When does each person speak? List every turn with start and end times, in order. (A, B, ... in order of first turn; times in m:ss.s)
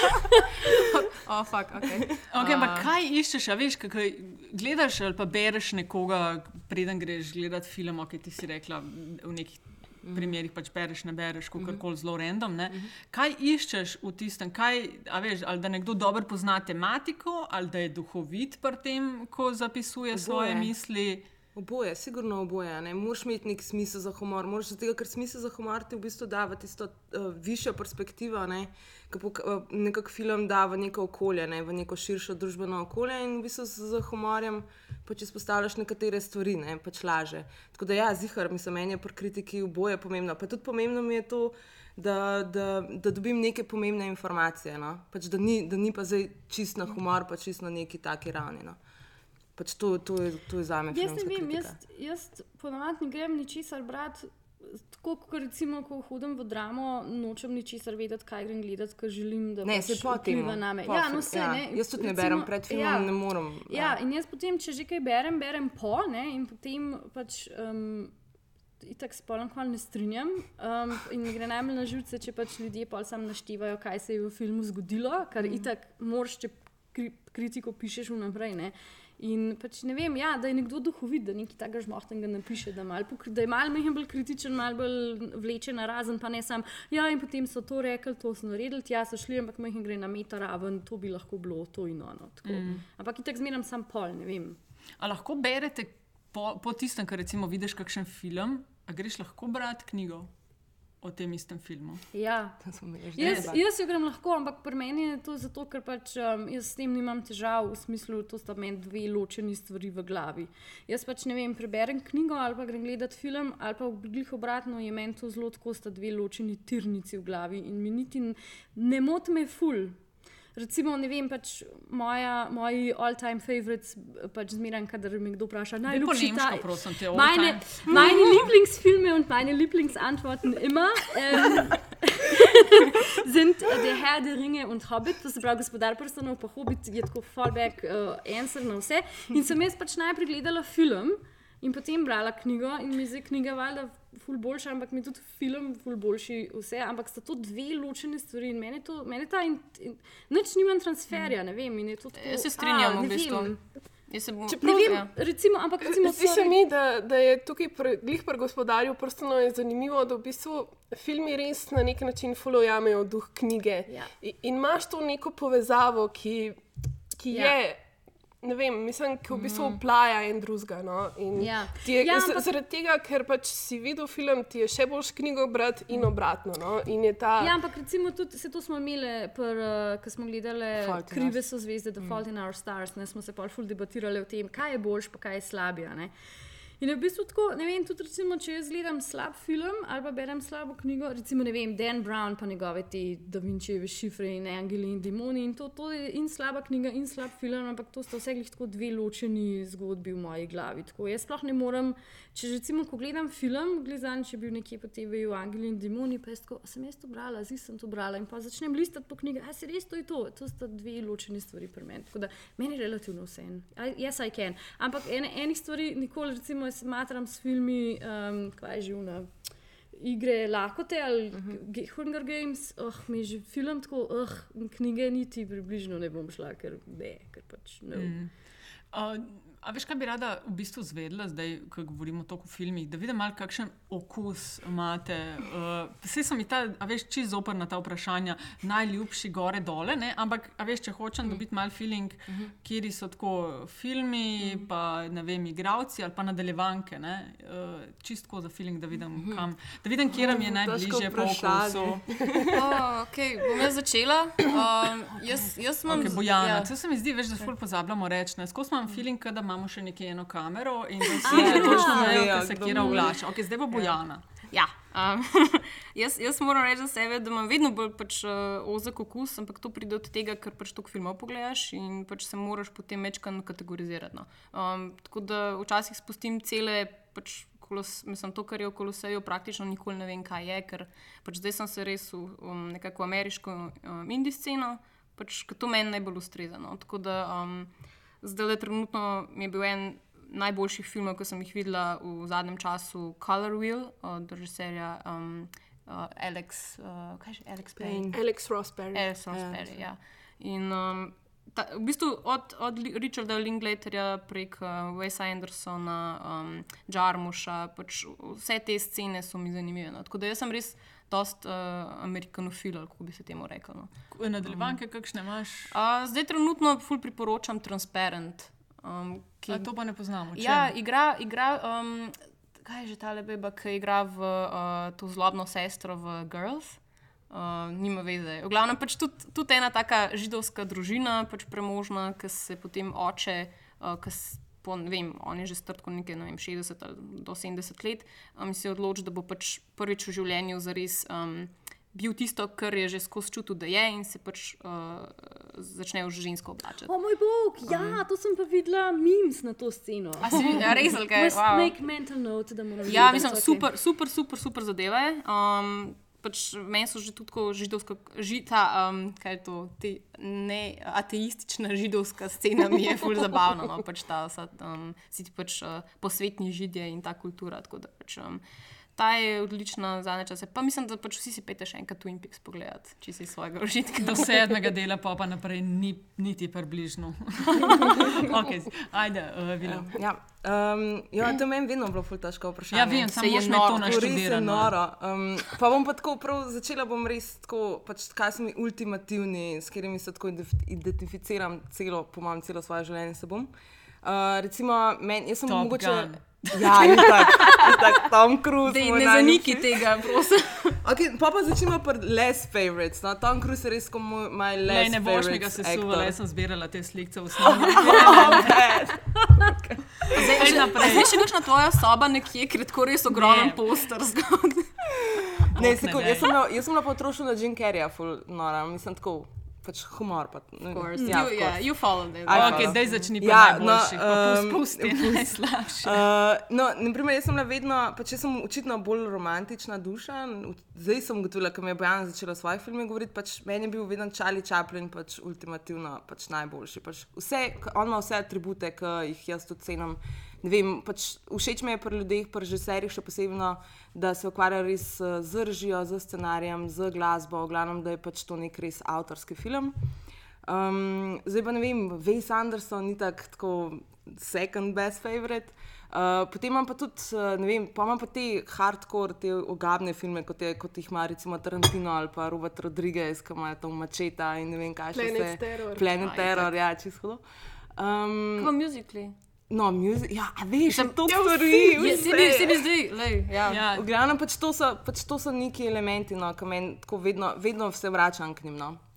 0:00.7-0:02.9 A
0:02.3-0:21.2 B
0:10.0-0:10.3 C
0:20.1-0:20.7 C
0:21.5-0:48.8 C
0:49.6-0:51.8 C
0:50.9-1:03.1 D
0:59.6-1:04.0 C
1:03.6-1:08.1 D
1:08.8-1:34.6 D
1:32.4-1:32.8 B
1:35.0-1:40.3 B
1:41.0-1:42.0 B
1:42.1-1:42.6 D
1:42.6-1:43.6 C
1:43.1-2:00.0 D
1:43.2-1:43.5 B
2:00.5-2:33.6 D
2:05.8-2:08.0 B
2:07.9-2:08.3 A
2:32.1-2:33.6 A
2:34.1-2:35.1 A
2:34.5-2:36.6 D
2:35.9-2:46.6 E
2:47.2-2:47.8 E
2:47.3-2:47.6 D
2:48.4-2:57.5 E
2:51.4-2:52.5 D
2:57.4-3:06.1 D
3:00.8-3:01.4 C
3:06.8-3:39.3 D
3:39.9-3:48.2 D
3:41.3-3:41.6 C
3:47.9-3:48.3 B
3:48.9-4:12.1 B
4:10.1-4:12.6 C
4:12.5-4:16.7 A
4:15.9-4:24.2 B
4:21.2-4:22.4 D
4:21.3-4:23.2 C
4:24.5-4:47.7 A
4:48.2-4:58.2 A
4:57.8-4:58.2 C
4:58.1-4:59.0 E
4:58.9-5:13.9 A
4:59.3-4:59.7 C
5:14.1-5:15.7 B
5:15.7-5:19.7 A
5:19.5-5:20.7 B
5:20.3-5:26.8 A
5:27.3-5:46.9 A
5:46.8-5:53.7 D
5:47.6-5:48.0 A
5:50.2-5:51.7 A
5:52.8-6:08.4 A
6:09.0-6:14.7 A
6:14.0-6:20.0 B
6:19.6-6:33.5 C
6:22.7-6:24.7 B
6:23.1-6:24.2 A
6:34.0-6:40.2 C
6:35.4-6:37.5 B
6:37.0-6:37.8 A
6:38.6-6:40.8 A
6:40.8-6:46.2 C
6:44.7-6:48.8 B
6:47.4-6:50.8 C
6:50.1-6:51.1 B
6:50.1-6:55.0 A
6:53.1-6:53.6 B
6:55.4-7:29.7 C
6:55.5-6:56.3 B
7:00.7-7:02.8 A
7:01.0-7:01.2 D
7:02.3-7:06.0 B
7:30.4-7:47.2 C
7:44.9-7:45.9 E
7:46.0-7:46.5 A
7:47.7-7:48.5 C
7:48.4-7:49.2 A
7:49.5-7:52.7 C
7:50.7-7:53.6 A
7:53.4-7:53.9 B
7:53.5-7:58.8 C